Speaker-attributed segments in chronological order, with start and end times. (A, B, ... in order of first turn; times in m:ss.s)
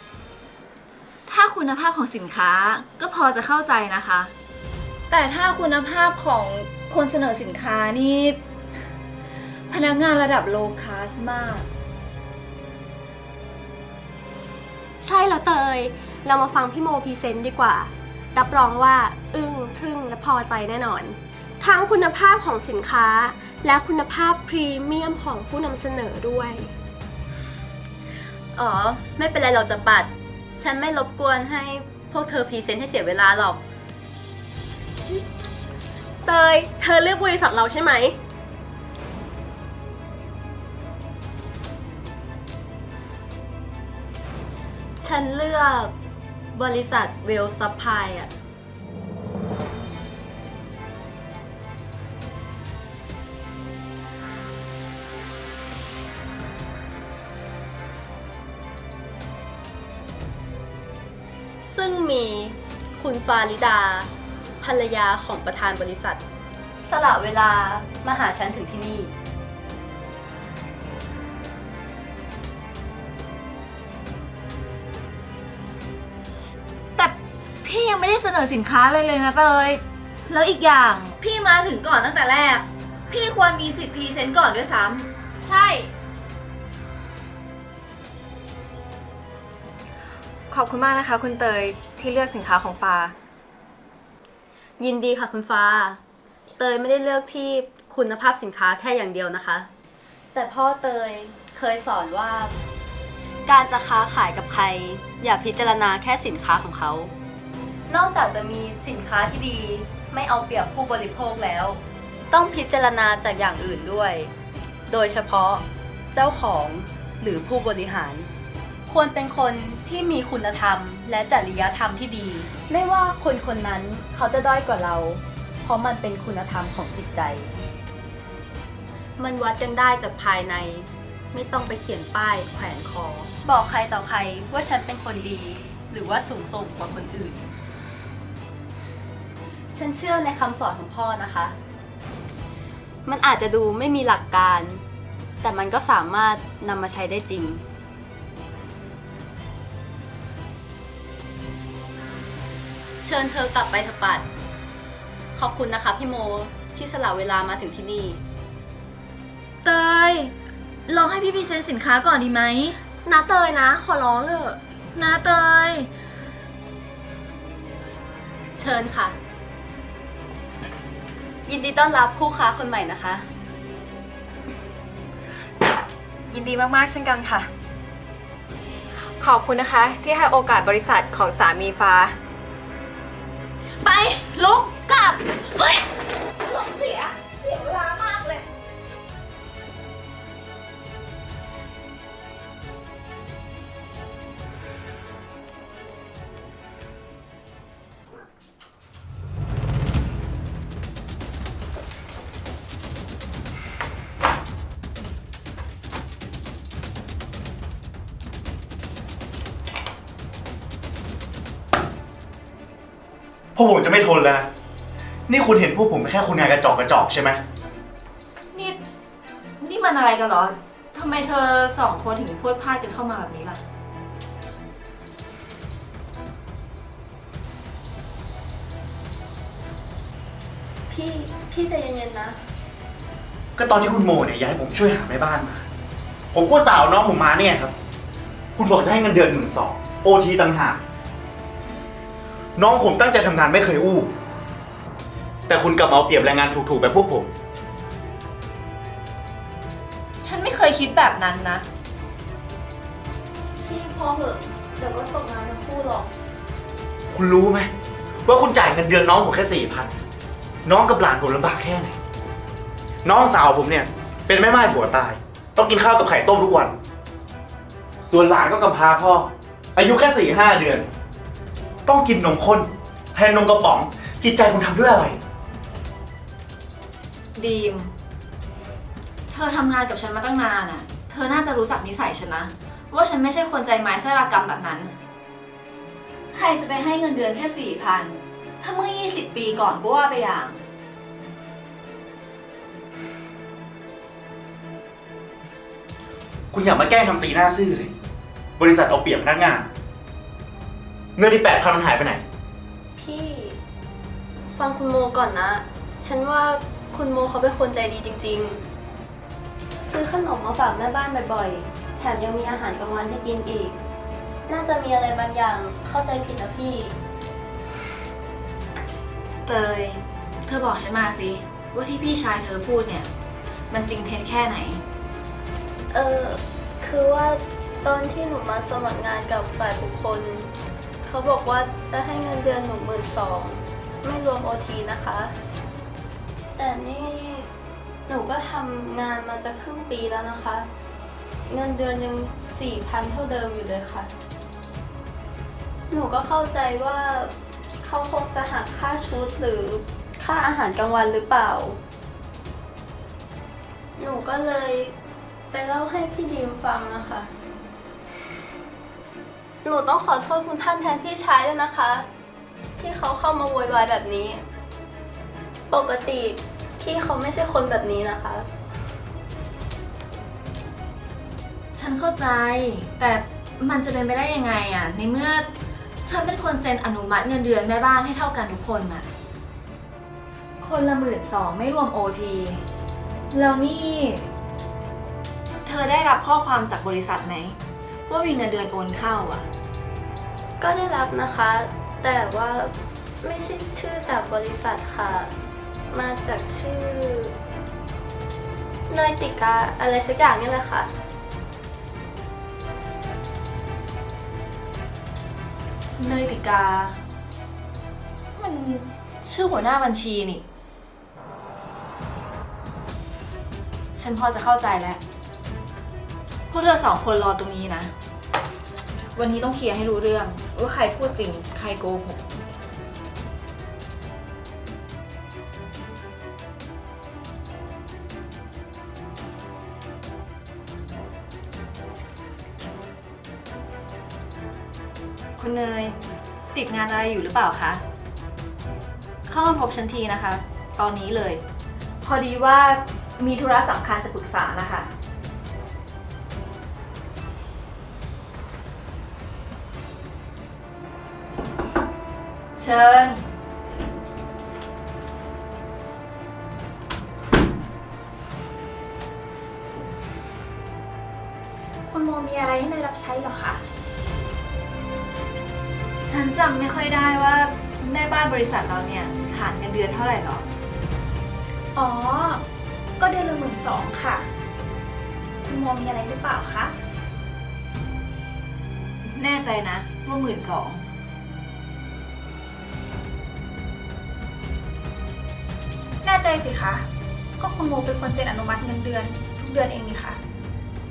0:01.3-0:04.3 A
0:05.1-0:08.4 A
0:09.7-0:11.7 A
0:15.0-0:26.7 B
0:28.6-0:33.6 C
0:36.2-0:38.2 B
0:45.0-0:45.9 C
0:46.5-0:48.3 C
1:01.6-1:06.2 C
1:06.8-1:09.1 C
1:17.0-1:25.9 A
1:30.5-1:33.2 D
1:34.8-1:36.0 C
1:36.6-1:39.7 C
1:40.3-1:42.5 C
1:43.5-1:47.1 C
1:47.9-1:54.3 C
1:54.9-1:58.3 C
1:58.9-2:07.5 C
2:09.2-2:17.4 C
2:19.7-2:21.6 C
2:23.1-2:24.8 C
2:25.4-2:27.6 C
2:33.0-2:34.3 C
2:35.4-2:38.2 C
2:39.6-2:40.3 A
2:40.9-2:42.8 A
2:43.1-2:44.6 B
2:45.0-2:45.9 A
2:48.5-2:49.2 C
2:51.5-2:53.3 C
2:56.3-2:57.5 D
2:59.2-3:02.2 D
3:03.8-3:08.4 A
3:33.6-3:34.5 E
3:35.3-3:37.4 E
3:38.5-3:38.8 A
3:39.6-3:43.6 A
3:50.9-3:52.4 C
3:53.6-3:55.6 E
3:56.3-3:57.7 E
3:58.6-4:00.8 E
4:02.6-4:04.1 E
4:05.5-4:07.3 E
4:10.2-4:11.7 A
4:13.6-4:16.1 C
4:17.1-4:17.7 E
4:18.2-4:20.0 E
4:20.6-4:22.0 E
4:23.0-4:26.7 E
4:28.1-4:30.9 E
4:31.9-4:35.2 E
4:37.4-4:37.9 A
4:39.3-4:45.0 A
4:46.3-4:50.6 A
4:56.5-4:57.9 E
4:58.6-4:59.7 E
5:01.2-5:02.2 E
5:03.0-5:03.6 C
5:04.6-5:08.6 C
5:09.8-5:13.8 C
5:14.5-5:17.0 C
5:19.4-5:23.1 A
5:23.7-5:24.8 A
5:25.9-5:30.5 C
5:31.0-5:35.3 C
5:36.6-5:37.5 C
5:38.1-5:40.7 C
5:41.5-5:44.1 C
5:45.9-5:51.8 C
5:54.0-5:55.0 C
5:55.5-5:57.3 C
5:59.6-6:02.1 C
6:02.8-6:04.4 C
6:05.7-6:08.5 C
6:11.8-6:15.5 A
6:16.0-6:19.1 A
6:20.6-6:22.6 A
6:23.3-6:24.3 A
6:25.6-6:27.6 A
6:28.1-6:29.5 A
6:30.6-6:35.3 C
6:35.9-6:37.4 C
6:38.9-6:40.9 C
6:46.0-6:47.0 A
6:48.4-6:50.4 A
6:54.0-6:55.0 A
6:56.5-6:57.9 A
6:59.2-7:02.3 A
7:15.4-7:16.0 A
7:16.5-7:17.8 A
7:19.3-7:21.4 A
7:22.0-7:24.9 A
7:32.6-7:33.2 A
7:41.9-7:43.6 F
7:46.0-7:50.5 A
7:51.8-7:52.4 F
7:53.0-7:54.3 F
7:55.4-7:56.7 F
7:59.0-8:00.8 A
8:06.0-8:06.8 F
8:07.4-8:10.2 F